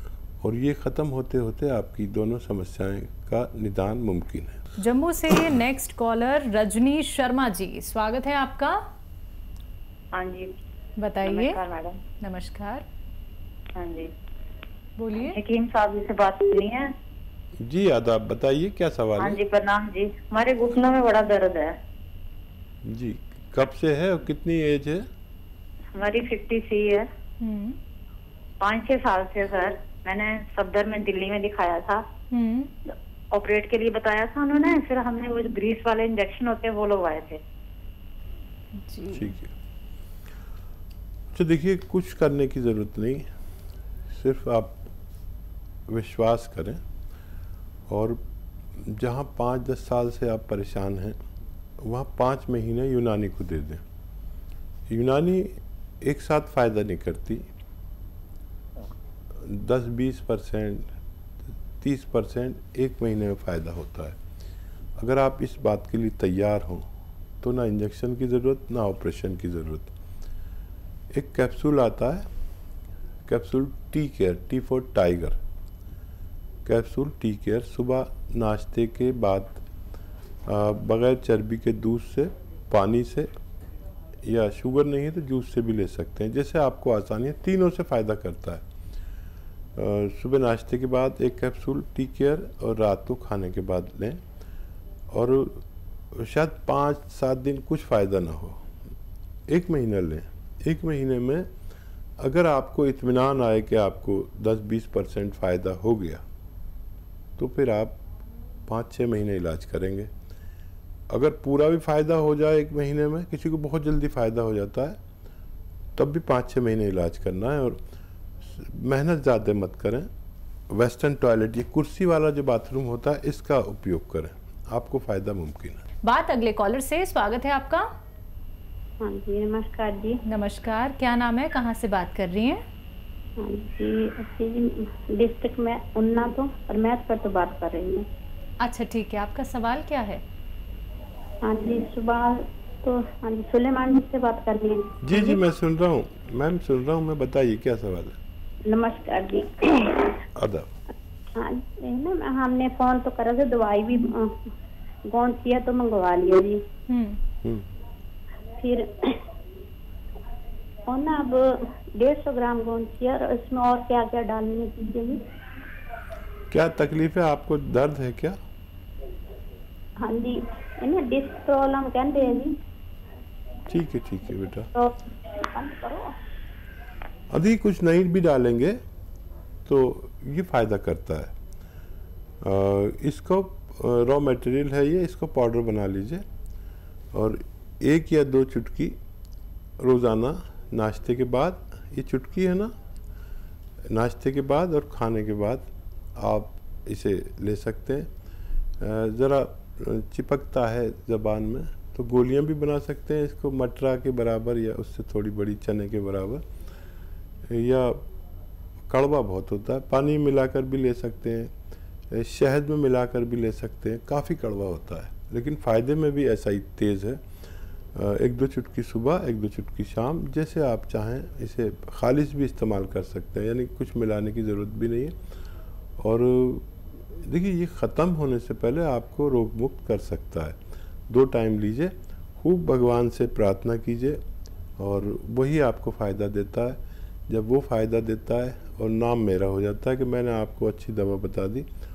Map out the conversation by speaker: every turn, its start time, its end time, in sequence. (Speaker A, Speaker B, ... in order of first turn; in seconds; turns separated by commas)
Speaker A: 0.4-4.6, Speaker B: 4.8-8.8, Speaker C: 10.1-10.5, Speaker B: 11.0-11.6, Speaker C: 11.2-12.0, Speaker B: 12.2-12.8, Speaker C: 13.7-14.1, Speaker B: 15.0-15.4, Speaker C: 15.2-16.9, Speaker A: 17.6-19.4, Speaker C: 19.2-21.8, Speaker A: 22.8-25.0, Speaker C: 25.9-27.1, Speaker B: 27.4-27.8, Speaker C: 28.6-32.0, Speaker B: 32.3-32.7, Speaker C: 32.9-37.4, Speaker B: 38.8-39.3, Speaker A: 39.1-39.5, Speaker A: 41.3-43.2, Speaker A: 44.1-44.8, Speaker A: 45.9-46.8, Speaker A: 47.9-48.2, Speaker A: 48.8-51.2, Speaker A: 51.8-53.8, Speaker A: 54.9-57.5, Speaker A: 59.4-60.9, Speaker A: 61.8-64.2, Speaker A: 65.0-66.8, Speaker A: 67.4-69.9, Speaker A: 71.1-72.2, Speaker A: 73.3-75.4, Speaker A: 76.6-79.6, Speaker A: 80.5-83.3, Speaker A: 84.2-88.6, Speaker A: 89.8-94.2, Speaker A: 95.1-98.6, Speaker A: 99.5-101.5, Speaker A: 102.2-106.2, Speaker A: 107.4-108.0, Speaker A: 108.7-110.1, Speaker A: 111.1-115.0, Speaker A: 116.0-117.8, Speaker A: 118.4-120.1, Speaker A: 120.7-125.8, Speaker B: 126.0-127.8, Speaker D: 129.0-130.2, Speaker B: 130.2-132.6, Speaker D: 133.4-138.0, Speaker B: 138.6-140.2, Speaker D: 141.4-144.9, Speaker A: 145.0-148.2, Speaker D: 148.7-150.2, Speaker A: 150.3-150.7, Speaker D: 151.3-154.3, Speaker D: 155.1-156.6, Speaker B: 156.9-157.2, Speaker D: 158.6-159.2, Speaker D: 160.9-165.2, Speaker A: 166.5-168.3, Speaker D: 170.0-172.5, Speaker A: 173.7-174.7, Speaker D: 174.7-176.1, Speaker A: 177.3-178.8, Speaker A: 179.7-181.3, Speaker A: 182.4-186.2, Speaker A: 187.1-188.9, Speaker A: 189.8-192.7, Speaker A: 193.9-198.1, Speaker A: 198.8-206.4, Speaker A: 207.5-208.0, Speaker A: 208.9-211.5, Speaker A: 212.1-217.2, Speaker A: 217.9-225.1, Speaker A: 226.0-230.6, Speaker A: 231.1-234.2, Speaker A: 234.8-236.8, Speaker A: 237.3-241.7